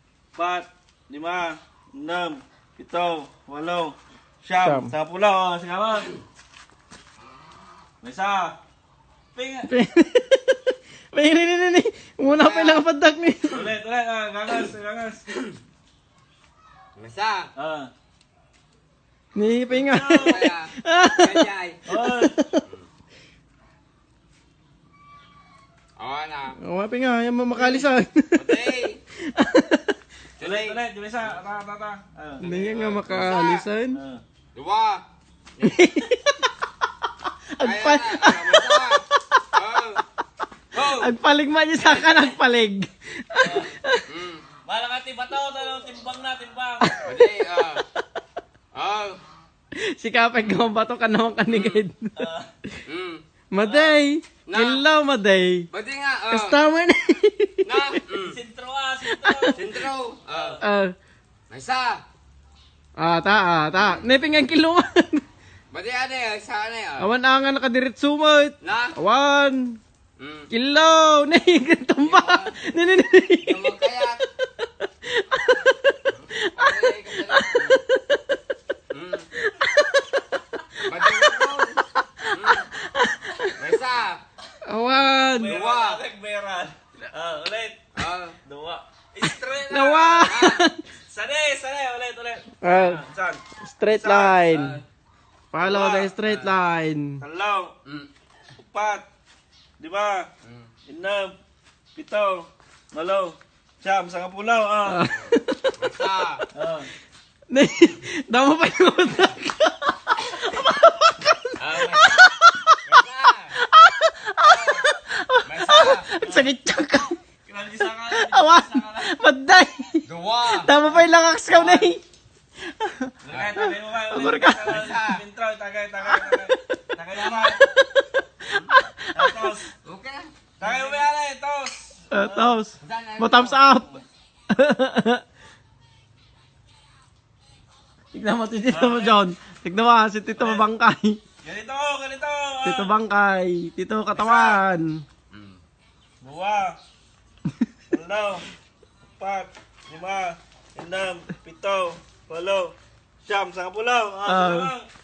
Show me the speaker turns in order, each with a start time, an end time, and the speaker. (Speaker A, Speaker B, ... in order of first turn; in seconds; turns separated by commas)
Speaker A: 0.3-6.1, Speaker B: 4.6-4.9, Speaker A: 8.0-8.6, Speaker A: 9.3-9.7, Speaker B: 9.7-13.7, Speaker C: 12.2-12.8, Speaker A: 13.5-15.2, Speaker C: 17.0-17.5, Speaker A: 17.6-17.9, Speaker B: 19.4-22.6, Speaker A: 19.7-20.4, Speaker C: 20.1-21.8, Speaker A: 21.9-22.4, Speaker C: 26.0-26.6, Speaker B: 26.6-30.0, Speaker C: 27.5-29.0, Speaker C: 30.4-30.8, Speaker A: 30.4-33.3, Speaker B: 32.4-34.0, Speaker C: 32.4-33.6, Speaker A: 33.9-34.2, Speaker C: 34.5-35.0, Speaker B: 35.6-36.5, Speaker B: 37.5-39.6, Speaker C: 37.6-40.0, Speaker C: 40.7-41.1, Speaker B: 40.8-44.1, Speaker C: 41.8-42.4, Speaker A: 43.4-43.8, Speaker C: 44.1-44.4, Speaker A: 44.6-47.0, Speaker B: 46.8-47.2, Speaker C: 47.0-47.9, Speaker C: 48.7-49.2, Speaker B: 49.8-52.2, Speaker C: 51.5-51.8, Speaker A: 52.2-52.5, Speaker C: 52.9-53.9, Speaker B: 53.5-55.7, Speaker C: 54.5-54.8, Speaker C: 55.7-56.6, Speaker B: 56.3-58.0, Speaker C: 57.6-58.4, Speaker A: 58.3-59.6, Speaker B: 59.2-59.5, Speaker C: 59.5-60.6, Speaker A: 60.2-60.6, Speaker B: 60.6-60.9, Speaker C: 61.5-62.0, Speaker B: 63.0-65.2, Speaker C: 65.7-67.1, Speaker B: 67.0-69.8, Speaker C: 68.6-69.0, Speaker C: 70.2-70.5, Speaker B: 70.5-73.8, Speaker C: 72.0-72.6, Speaker C: 73.3-74.2, Speaker B: 74.8-78.4, Speaker C: 76.1-77.8, Speaker C: 78.9-79.3, Speaker B: 79.4-83.7, Speaker C: 80.9-81.8, Speaker C: 82.3-82.7, Speaker C: 83.6-84.2, Speaker B: 84.7-85.6, Speaker A: 85.3-87.8, Speaker C: 85.5-86.0, Speaker C: 88.0-88.3, Speaker A: 88.5-90.3, Speaker B: 89.2-90.8, Speaker C: 90.2-90.7, Speaker A: 91.0-94.5, Speaker B: 92.6-93.0, Speaker B: 93.6-94.8, Speaker C: 94.5-94.8, Speaker B: 95.5-97.2, Speaker A: 95.6-96.2, Speaker C: 96.2-96.5, Speaker A: 97.2-97.7, Speaker A: 98.6-99.0, Speaker A: 99.8-100.3, Speaker C: 100.4-100.7, Speaker A: 100.9-101.3, Speaker A: 102.0-105.0, Speaker B: 104.9-106.2, Speaker C: 105.2-106.4, Speaker A: 106.5-106.9, Speaker B: 107.5-113.0, Speaker C: 111.6-112.3, Speaker C: 112.8-113.5, Speaker B: 113.5-117.2, Speaker C: 114.4-114.9, Speaker C: 115.4-116.1, Speaker A: 116.2-116.5, Speaker A: 117.5-119.1, Speaker B: 118.1-122.0, Speaker C: 120.1-120.7, Speaker A: 120.8-121.9, Speaker B: 122.7-124.7, Speaker A: 123.2-127.6, Speaker C: 124.6-125.2, Speaker B: 126.0-126.5, Speaker B: 127.4-129.5, Speaker A: 128.5-129.7, Speaker C: 129.8-131.1, Speaker A: 130.6-132.5, Speaker B: 132.1-135.2, Speaker C: 132.8-134.0, Speaker B: 138.1-141.2, Speaker A: 138.7-139.2, Speaker A: 140.4-140.7, Speaker A: 141.4-142.9, Speaker B: 142.7-145.0, Speaker A: 144.2-144.6, Speaker C: 145.3-145.6, Speaker A: 146.2-146.8, Speaker A: 147.9-148.5, Speaker A: 149.2-152.7, Speaker A: 153.3-154.9, Speaker B: 154.2-154.7